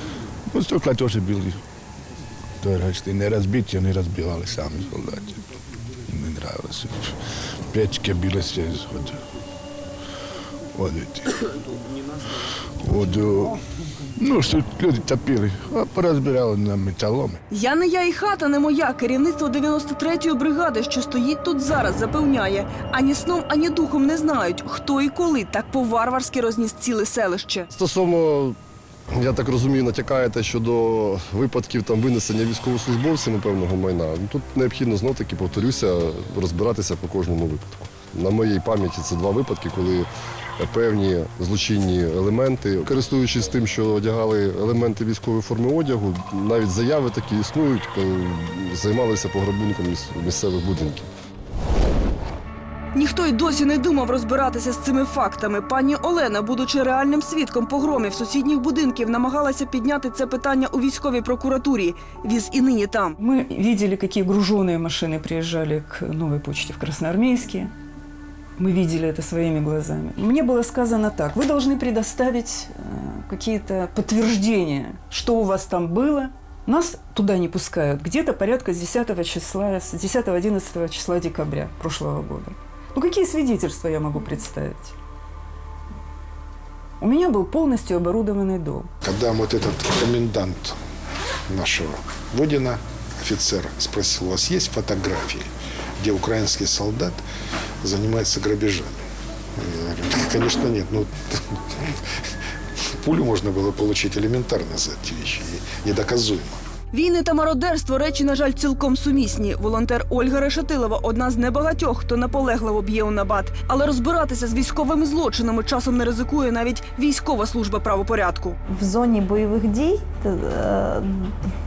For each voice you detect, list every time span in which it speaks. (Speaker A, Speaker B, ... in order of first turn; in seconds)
Speaker A: 0.5-1.6, 2.6-5.4, 6.1-7.1, 7.7-9.2, 10.7-11.3, 12.8-13.6, 14.2-17.4
Speaker B: 17.5-27.7, 52.9-63.1, 106.9-118.6
Speaker C: 27.7-28.6, 29.1-51.1
Speaker D: 63.2-67.7, 68.6-84.9, 87.0-88.9
Speaker E: 89.0-90.8, 91.5-95.5, 96.0-97.2, 97.8-99.0, 99.6-102.0, 103.0-106.6
Speaker F: 118.8-121.2